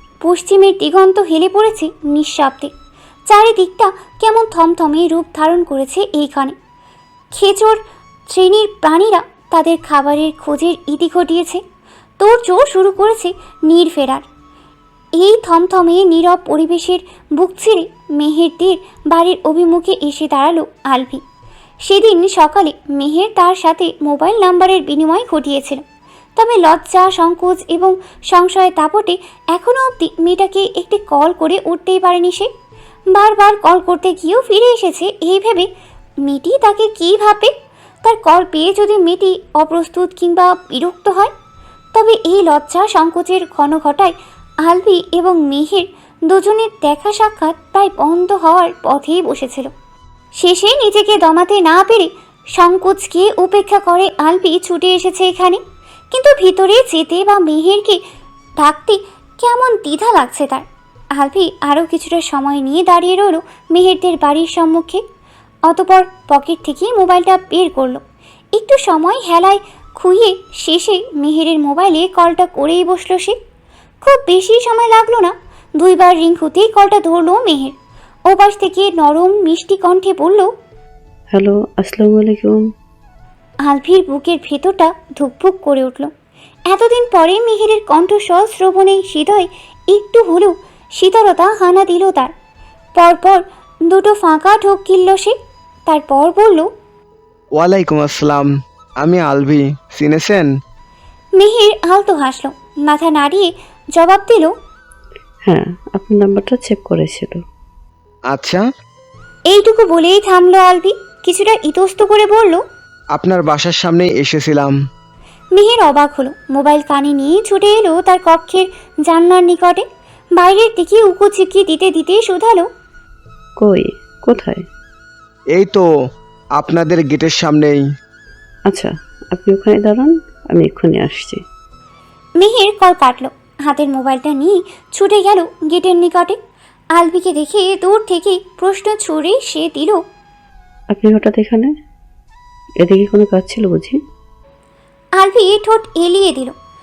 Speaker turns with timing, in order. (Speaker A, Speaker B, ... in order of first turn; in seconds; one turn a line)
Speaker A: 0.2-2.7
Speaker A: 3.3-6.5
Speaker A: 7.3-11.6
Speaker A: 12.2-14.2
Speaker A: 15.2-21.2
Speaker A: 21.9-25.8
Speaker A: 26.4-32.5
Speaker A: 33.1-35.7
Speaker A: 36.2-37.5
Speaker A: 38.0-41.3
Speaker A: 41.9-49.7
Speaker A: 50.4-55.6
Speaker A: 56.1-58.0
Speaker A: 58.6-60.6
Speaker A: 61.2-65.0
Speaker A: 65.7-68.0
Speaker A: 68.5-73.4
Speaker A: 74.0-77.8
Speaker A: 78.3-80.5
Speaker B: 81.3-82.6
Speaker A: 83.7-86.1
Speaker A: 86.7-92.3
Speaker A: 93.0-95.3
Speaker A: 95.9-96.7
Speaker C: 97.6-98.5
Speaker C: 99.0-100.5
Speaker A: 101.4-104.5
Speaker B: 105.5-107.4
Speaker C: 108.3-108.6
Speaker A: 109.5-112.6
Speaker C: 113.1-114.8
Speaker A: 115.5-119.9
Speaker A: 120.4-122.7
Speaker B: 123.6-124.6
Speaker C: 125.5-125.9
Speaker C: 126.6-127.8
Speaker B: 128.7-131.4
Speaker A: 132.4-136.4
Speaker A: 137.0-140.0
Speaker B: 140.9-141.7
Speaker B: 142.8-144.0
Speaker A: 145.2-146.5